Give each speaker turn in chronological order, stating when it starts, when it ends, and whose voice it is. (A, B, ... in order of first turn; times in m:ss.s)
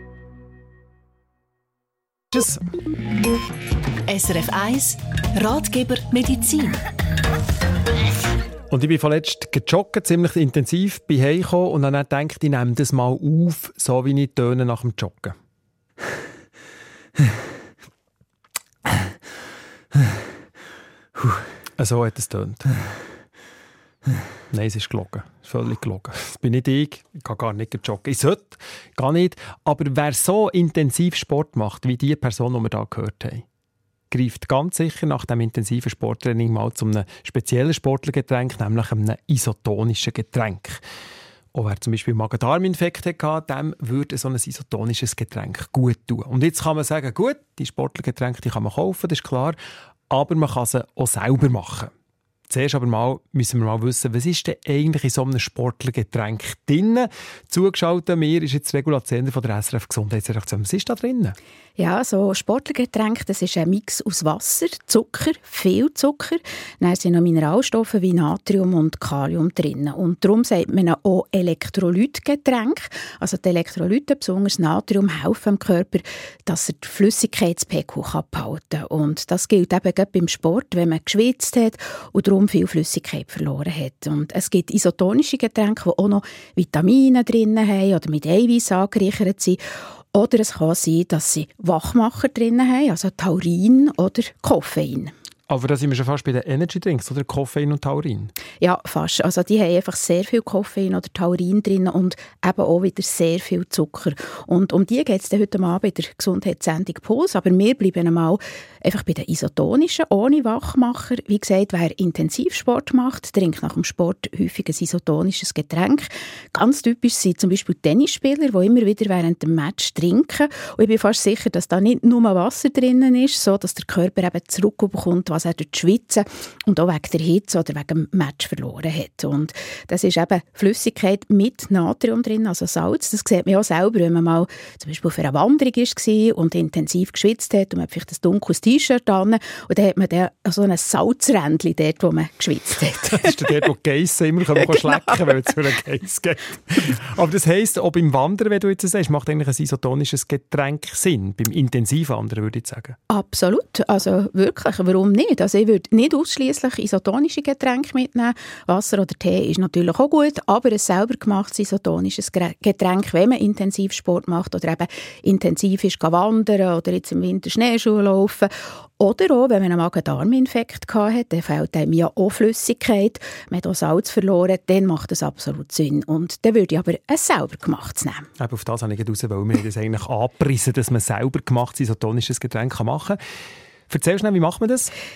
0:02.3-0:02.6 A
0:04.1-0:06.8 B
0:08.7-0:15.3 A
0:21.8-0:22.6 A
0:24.5-0:33.4 A
0:34.1-0:40.8 A
0:41.5-0:49.6 A
0:50.1-0:51.9 A
0:52.5-1:01.3 A
1:01.8-1:29.6 C
1:30.1-1:35.1 C
1:35.5-1:38.3 A
1:38.6-2:23.5 C
2:23.1-2:33.0 A
2:33.1-2:58.3 C
2:58.4-3:03.2 A
3:03.9-3:04.9 A